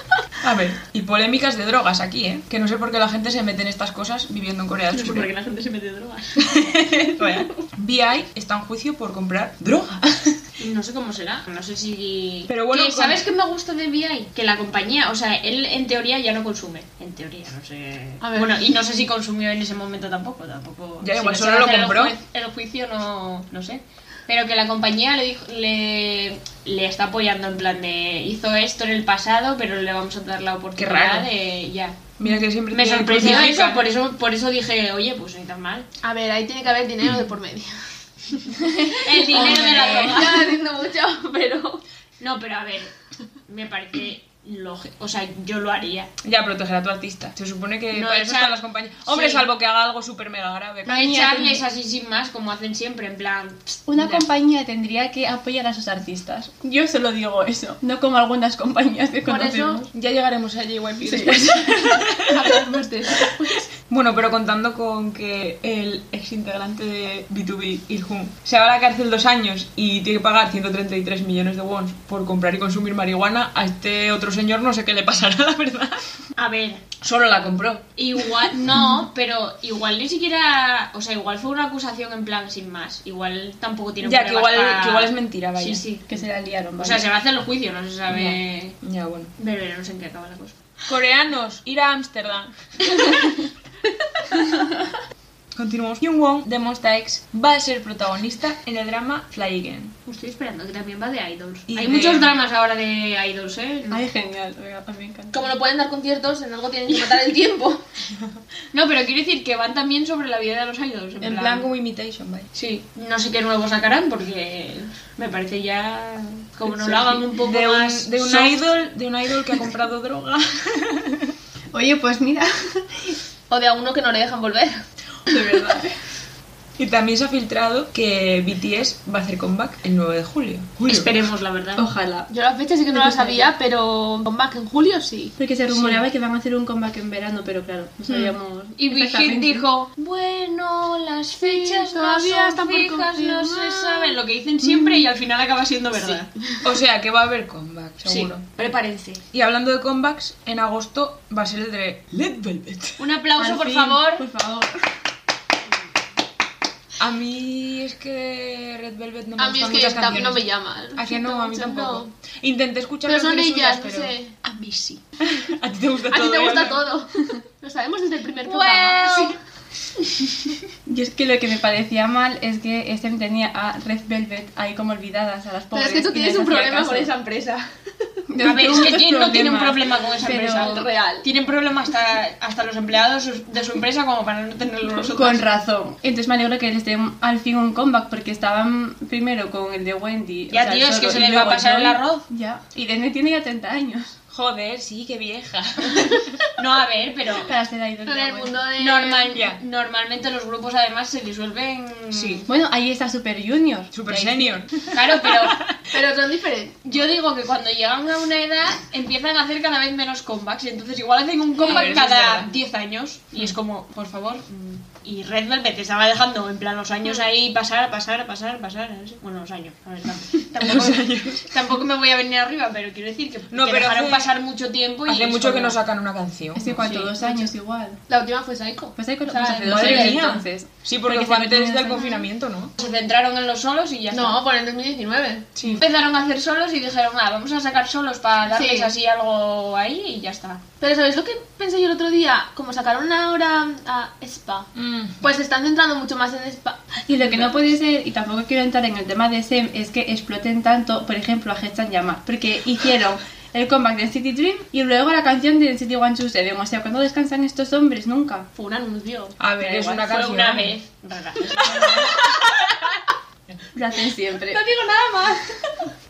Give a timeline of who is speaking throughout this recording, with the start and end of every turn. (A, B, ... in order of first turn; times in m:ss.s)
0:00.4-0:05.3 A
0:04.9-0:06.6 B
0:06.4-0:10.4 A
0:10.6-0:32.1 B
0:12.5-0:13.2 A
0:18.2-0:18.6 C
0:21.0-0:22.2 A
0:30.8-0:31.3 A
0:32.2-0:33.9 A
0:32.7-0:35.9 B
0:36.0-0:41.8 C
0:38.8-0:40.3 D
0:39.0-0:40.6 B
0:42.2-0:42.9 B
0:43.5-0:46.1 B
0:46.2-0:51.1 A
0:47.9-0:49.4 B
0:50.9-0:54.2 B
0:50.9-0:51.6 D
0:53.9-0:59.9 D
0:59.3-0:59.9 C
0:59.9-1:02.6 A
1:01.0-1:01.5 D
1:02.3-1:03.6 C
1:02.3-1:02.9 D
1:03.7-1:16.1 A
1:16.4-1:16.9 B
1:17.0-1:18.2 A
1:18.0-1:26.1 B
1:24.0-1:25.8 A
1:26.1-1:27.1 D
1:26.8-1:28.8 B
1:28.1-1:29.3 A
1:29.4-1:30.6 B
1:30.9-1:32.5 A
1:34.3-1:34.8 D
1:35.6-1:40.0 A
1:40.1-1:44.0 B
1:41.7-1:42.4 A
1:43.9-1:45.4 D
1:45.3-1:47.8 C
1:48.7-1:51.7 B
1:51.2-1:52.5 A
1:52.6-1:58.7 B
1:57.3-2:01.4 A
2:01.7-2:03.2 D
2:03.5-2:04.8 C
2:05.3-2:06.0 D
2:06.8-2:11.2 A
2:10.9-2:11.8 B
2:11.8-2:12.3 D
2:12.3-2:15.4 C
2:12.9-2:13.5 D
2:15.4-2:19.6 D
2:18.8-2:26.3 B
2:21.4-2:24.2 C
2:26.6-2:28.4 A
2:28.0-2:29.2 B
2:29.3-2:33.0 A
2:33.0-2:34.2 B
2:33.4-2:34.9 D
2:37.0-2:46.9 A
2:39.4-2:42.1 C
2:43.1-2:44.3 C
2:46.1-2:49.4 C
2:48.4-2:49.4 B
2:50.9-2:57.1 D
2:55.7-2:57.7 C
2:58.3-3:00.8 D
2:58.4-3:05.4 B
3:00.4-3:01.3 C
3:05.1-3:14.2 D
3:10.5-3:12.2 B
3:14.3-3:16.4 A
3:16.6-3:17.5 B
3:17.4-3:18.6 D
3:18.1-3:19.4 C
3:18.8-3:22.5 B
3:19.3-3:19.6 A
3:22.1-3:22.5 A
3:22.5-3:24.3 D
3:23.9-3:25.8 A
3:24.1-3:25.6 B
3:25.9-3:26.8 C
3:26.8-3:45.8 B
3:31.6-3:32.5 A
3:40.6-3:41.5 A
3:43.5-3:44.3 A
3:45.1-3:46.9 A
3:46.6-3:48.0 D
3:46.8-3:47.4 B
3:48.1-3:49.0 C
3:49.0-3:52.1 D
3:49.3-3:50.4 B
3:49.7-3:52.7 A
3:52.8-3:54.4 B
3:54.1-3:55.5 C
3:55.6-3:55.8 A
3:55.8-4:00.6 B
3:58.5-3:58.9 C
4:00.8-4:04.7 C
4:04.8-4:05.2 A
4:05.2-4:07.6 C
4:07.1-4:18.5 D
4:18.6-4:19.4 C
4:19.4-4:20.8 A
4:19.7-4:22.1 B
4:21.7-4:22.5 A
4:23.7-4:24.6 D
4:24.5-4:25.4 C